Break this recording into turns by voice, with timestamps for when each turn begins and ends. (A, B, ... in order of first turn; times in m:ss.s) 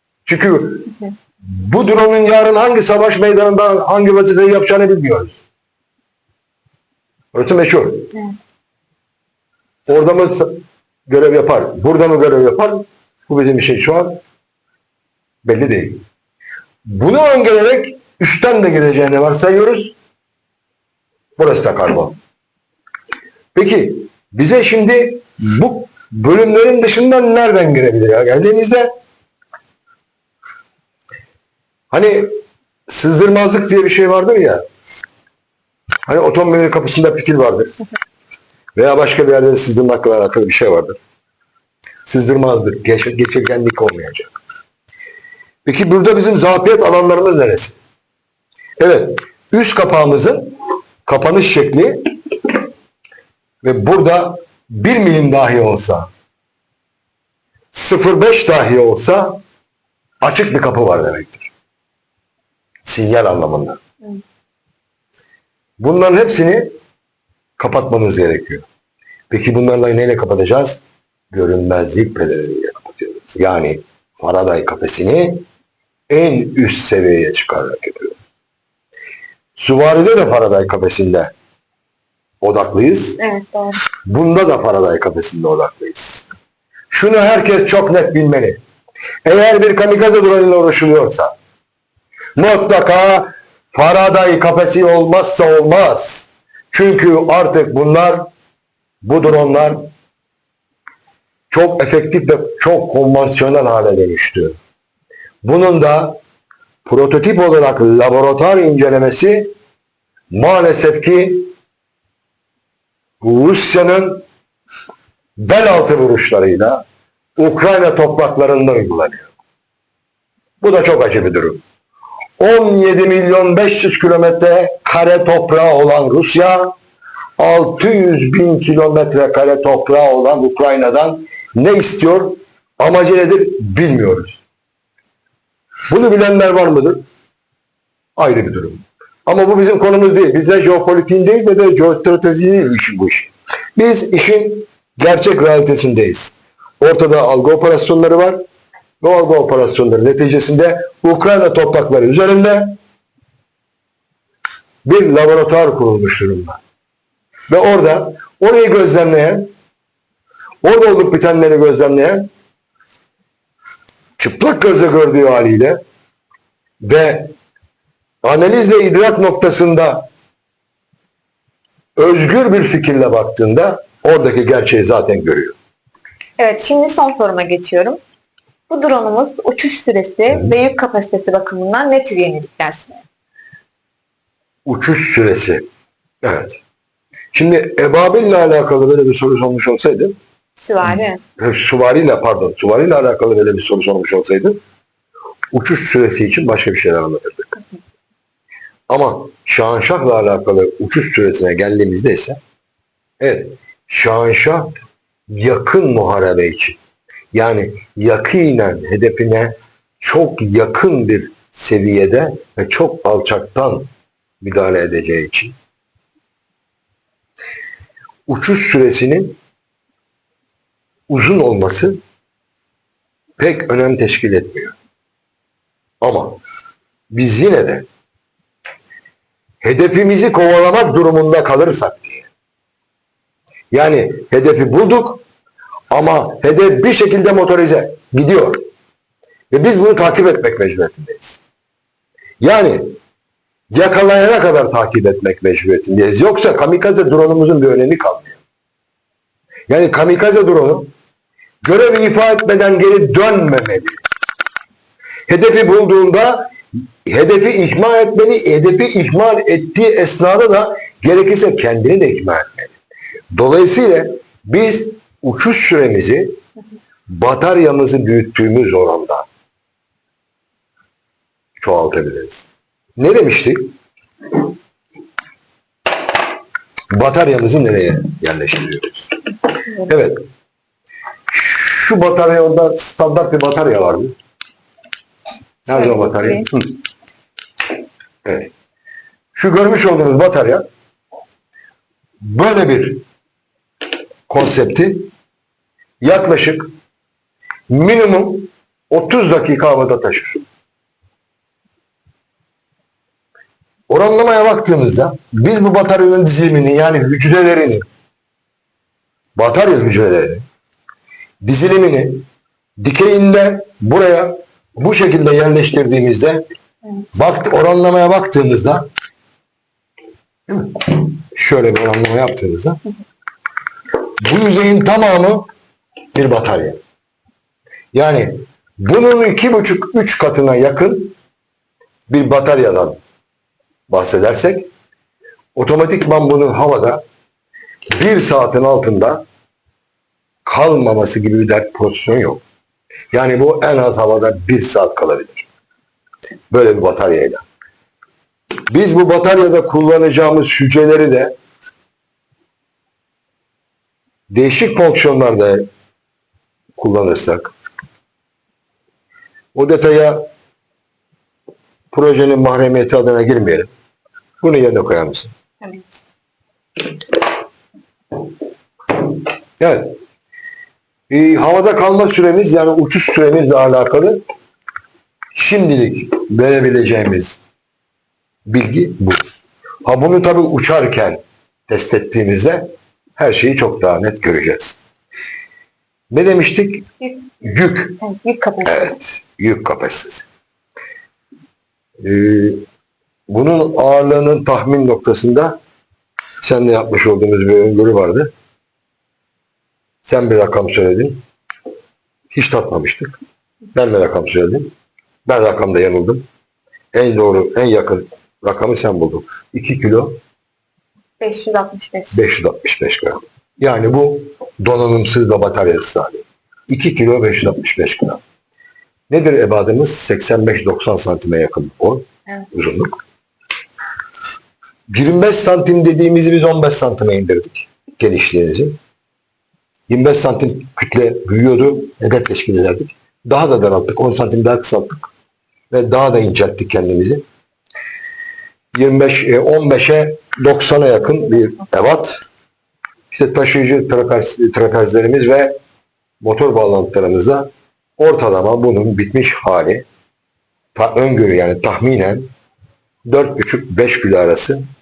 0:00.2-0:05.4 A
0:07.3-0:08.1 A
0:08.1-0:08.4 B
0:09.9-0:14.2 A
0:15.4-0:16.0 A
0:16.9-0:20.0 A
0:21.4-0:22.2 A
0:23.6-0:28.9 A
0:31.9-0:32.4 A
0:32.9-0:34.6 A
0:36.1-0:37.7 A
0:38.8-0:41.0 A
0:42.1-0:44.4 A
0:45.6-0:47.8 A
0:48.8-0:50.5 A
0:51.0-0:52.0 A
0:53.6-0:56.1 A
0:57.7-0:59.4 A
1:00.2-1:01.5 A
1:02.8-1:03.8 A
1:05.8-1:06.7 A
1:07.6-1:08.7 A
1:09.3-1:15.4 A
1:16.1-1:18.2 A
1:19.6-1:21.3 A
1:22.4-1:23.2 A
1:23.2-1:23.8 B
1:24.1-1:26.3 A
1:26.9-1:28.6 A
1:29.2-1:31.3 A
1:32.4-1:38.3 A
1:39.0-1:39.9 A
1:41.5-1:44.6 A
1:45.4-1:46.2 A
1:46.8-1:49.5 A
1:50.3-1:51.5 A
1:53.2-1:54.2 A
1:55.4-1:56.8 A
1:57.4-1:59.3 A
2:00.6-2:01.6 A
2:02.4-2:06.8 A
2:07.4-2:14.4 A
2:15.9-2:17.0 A
2:18.2-2:28.4 A
2:29.0-2:32.8 A
2:34.8-2:36.6 A
2:37.5-2:39.5 A
2:40.6-2:42.3 A
2:44.2-2:45.8 A
2:46.8-2:47.3 A
2:48.2-2:50.1 A
2:52.0-2:55.6 A
2:56.4-2:58.0 B
2:58.7-3:03.0 B
3:04.7-3:05.6 A
3:06.2-3:06.6 A
3:07.3-3:10.2 A
3:10.6-3:11.2 B
3:10.8-3:14.6 A
3:15.5-3:17.6 A
3:18.9-3:22.4 A
3:23.2-3:24.7 A
3:25.3-3:26.8 A
3:27.3-3:33.9 A
3:34.4-3:35.6 A
3:38.3-3:39.4 A
3:41.1-3:42.0 A
3:43.4-3:44.8 A
3:46.0-3:46.4 A
3:47.1-3:47.9 A
3:49.6-3:52.3 A
3:53.7-3:55.2 A
3:55.9-3:58.7 A
3:59.5-4:01.4 A
4:02.4-4:03.0 A
4:03.7-4:08.4 A
4:09.7-4:10.9 A
4:11.6-4:14.0 A
4:15.3-4:22.8 A
4:23.3-4:26.4 A
4:27.1-4:29.3 A
4:31.6-4:33.7 A
4:36.9-4:39.2 A
4:39.6-4:39.9 B
4:39.9-4:40.2 A
4:41.3-4:44.2 A
4:45.7-4:46.5 B
4:45.7-4:46.7 A
4:48.2-4:48.5 A
4:49.3-4:50.6 A
4:52.2-4:53.0 A
4:54.3-4:55.1 A
4:56.0-4:56.8 A
4:57.7-5:00.5 A
5:03.9-5:07.8 A
5:09.4-5:10.4 A
5:11.4-5:12.2 A
5:12.8-5:16.4 A
5:17.1-5:18.9 A
5:20.5-5:22.8 A
5:24.2-5:25.5 A
5:26.1-5:26.8 A
5:27.9-5:31.2 A
5:32.1-5:33.0 A
5:33.9-5:34.7 A
5:35.6-5:37.0 A
5:37.9-5:39.2 A
5:40.4-5:42.4 A
5:43.1-5:45.5 A
5:46.5-5:47.4 A
5:48.7-5:51.4 A
5:54.3-5:55.7 A
5:56.8-5:57.5 A
5:59.6-6:00.2 A
6:01.9-6:03.7 A
6:04.4-6:05.3 A
6:05.6-6:06.0 B
6:09.6-6:10.0 A
6:11.1-6:14.2 A
6:15.3-6:17.4 A
6:18.5-6:19.2 A
6:19.8-6:24.8 A
6:26.1-6:28.0 A
6:28.0-6:29.0 B
6:28.6-6:30.3 A
6:32.0-6:32.6 A
6:33.3-6:35.6 A
6:36.4-6:38.3 A
6:40.0-6:41.2 A
6:42.3-6:43.2 A
6:43.7-6:44.7 A
6:45.3-6:46.3 A
6:46.9-6:50.2 A
6:51.2-6:52.2 B
6:52.1-6:58.2 A
6:59.1-7:03.0 A
7:04.9-7:08.8 A
7:09.9-7:15.1 A
7:15.7-7:17.2 A
7:18.7-7:22.2 A
7:23.1-7:25.6 A
7:26.2-7:29.9 A
7:30.8-7:32.3 A
7:33.0-7:34.6 A